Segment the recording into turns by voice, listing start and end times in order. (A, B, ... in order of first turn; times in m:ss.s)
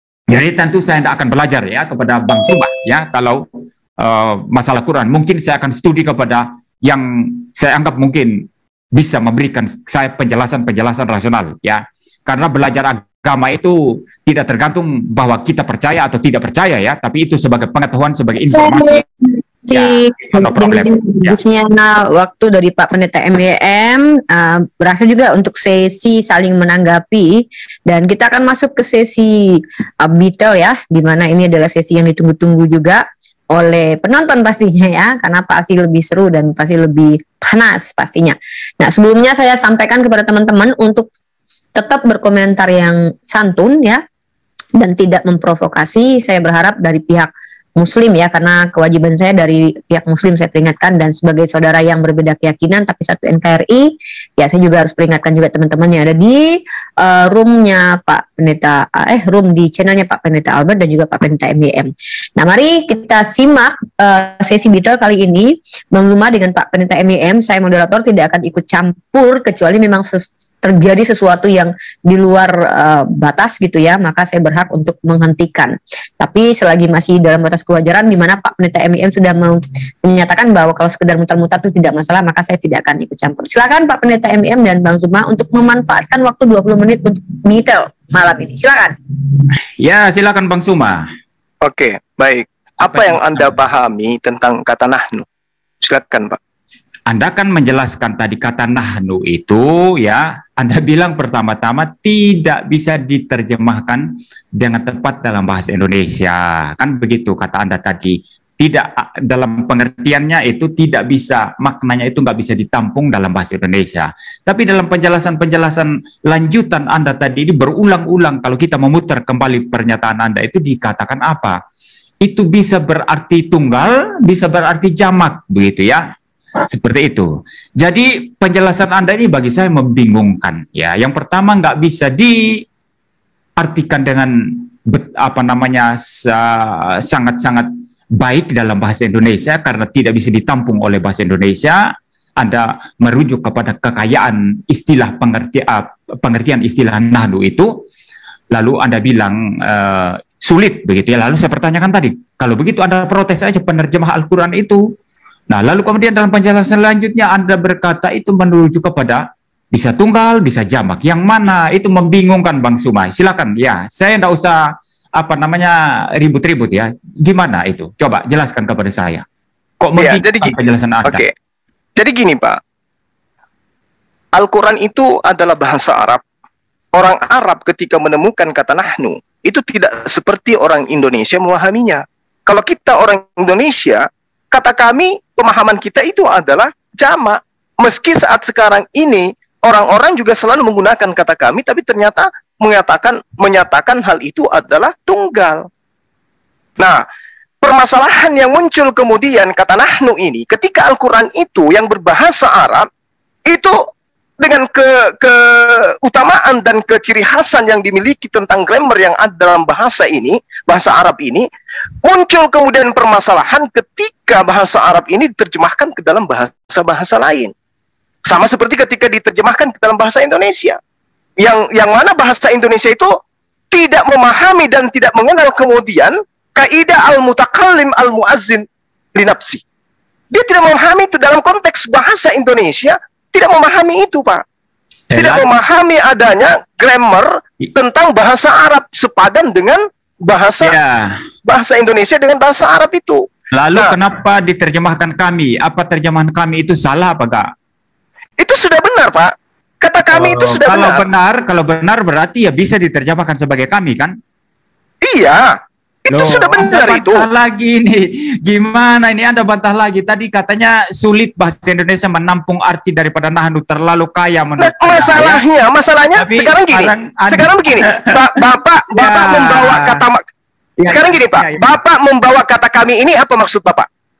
0:00.3-0:19.0 A
0:18.5-0:41.1 B
0:19.7-0:21.4 A
0:41.8-0:44.0 B
0:44.8-1:29.0 B
1:29.8-1:31.1 A
1:31.6-1:35.2 C
1:32.8-1:33.6 A
1:35.8-1:36.4 C
1:37.1-2:01.6 A
2:02.2-2:06.0 A
2:06.6-2:12.6 A
2:13.6-2:21.8 A
2:22.4-2:27.8 A
2:28.5-2:34.8 A
2:35.5-2:44.6 A
2:45.2-2:49.2 A
2:49.8-2:51.2 A
2:50.0-2:50.5 C
2:51.0-2:51.3 C
2:52.0-2:52.6 C
2:54.3-2:56.2 C
2:56.9-3:15.7 C
3:16.8-3:17.0 C
3:17.6-3:22.9 C
3:23.5-3:23.9 C
3:24.4-3:31.4 C
3:32.0-3:37.5 C
3:38.2-3:40.8 C
3:41.4-3:43.2 C
3:43.7-3:49.6 C
3:50.3-3:54.4 C
3:55.1-3:55.5 A
3:55.1-4:00.7 C
4:00.6-4:01.2 A
4:01.4-4:03.9 C
4:03.5-4:07.5 A
4:08.4-4:11.0 C
4:10.1-4:14.2 A
4:15.0-4:15.5 C
4:16.0-4:17.2 C
4:16.1-4:25.4 A
4:24.6-4:30.2 C
4:26.1-4:28.3 A
4:28.9-4:30.0 A
4:30.8-4:31.7 A
4:30.8-4:33.8 C